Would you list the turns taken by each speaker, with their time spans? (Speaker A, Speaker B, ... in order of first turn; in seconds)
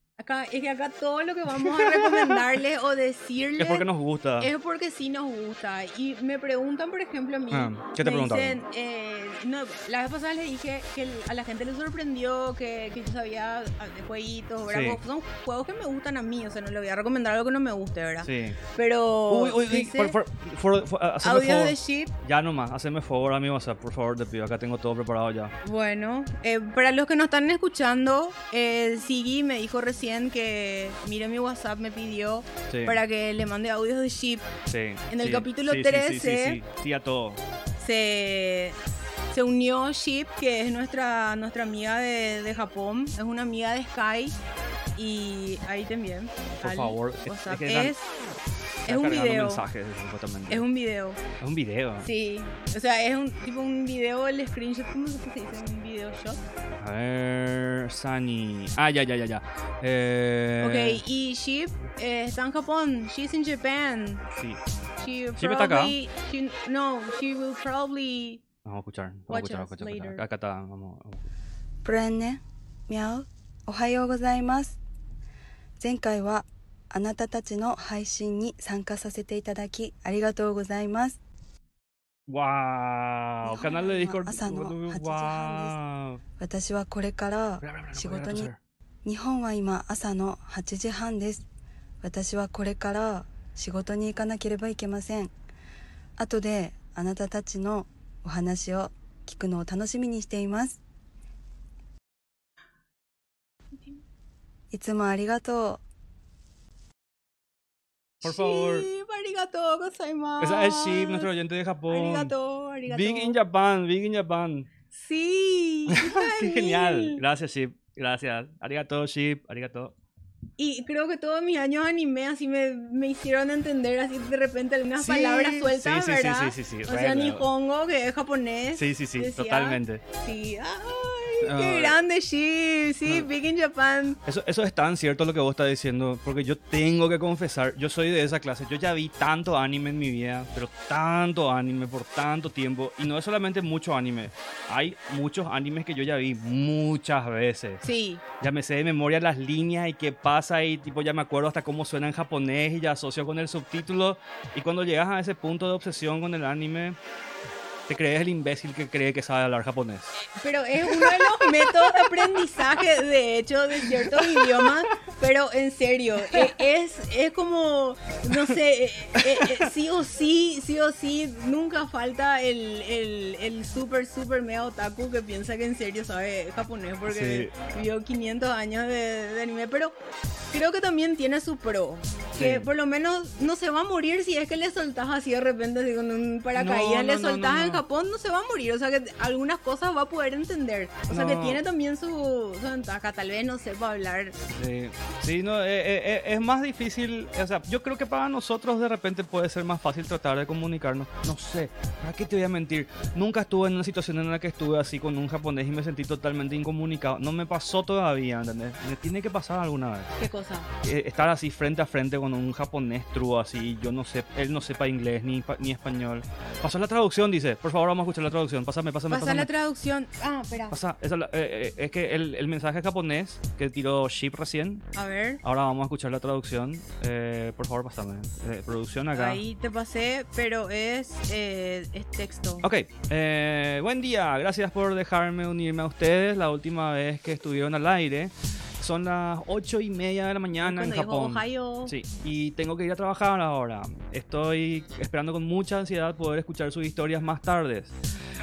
Speaker A: 0.2-3.9, 4.4-20.1, 21.2-22.1, 25.6-34.5, 35.1-36.6, 37.8-44.4, 45.0-48.1, 48.8-49.6, 50.5-51.2, 52.0-56.4, 60.6-64.2, 65.0-68.4, 69.3-70.2, 103.7-104.0, 108.2-111.3, 111.9-113.4, 114.9-117.2, 120.6-134.2, 147.8-148.2, 160.2-179.9, 180.5-194.3, 210.2-210.7, 219.1-220.8, 224.9-225.4, 229.1-232.7, 240.6-241.9
Speaker B: 1.6-2.4, 3.6-4.5, 7.5-8.6, 14.7-15.0, 18.2-18.6, 19.3-25.5, 32.7-33.0, 34.7-37.4, 46.6-47.9, 48.9-50.6, 51.4-52.1, 56.8-61.0, 65.4-66.0, 68.6-71.2, 82.3-86.2, 87.6-88.6, 108.2-108.9, 110.4-112.3, 112.9-114.7, 115.9-119.9, 125.0-127.5, 128.7-130.0, 131.4-132.0, 134.2-147.8, 148.4-157.0, 157.9-160.2, 160.9-162.4, 163.8-164.7, 169.2-169.7, 177.1-177.5, 182.3-182.7, 186.5-187.8, 191.1-191.6, 194.5-210.1, 210.8-219.5, 220.7-224.9, 225.4-229.4, 232.6-247.9
Speaker C: 71.8-74.8, 75.8-81.2, 83.4-85.8, 86.4-88.5, 89.0-91.4, 92.0-95.3, 96.2-100.8, 104.7-105.8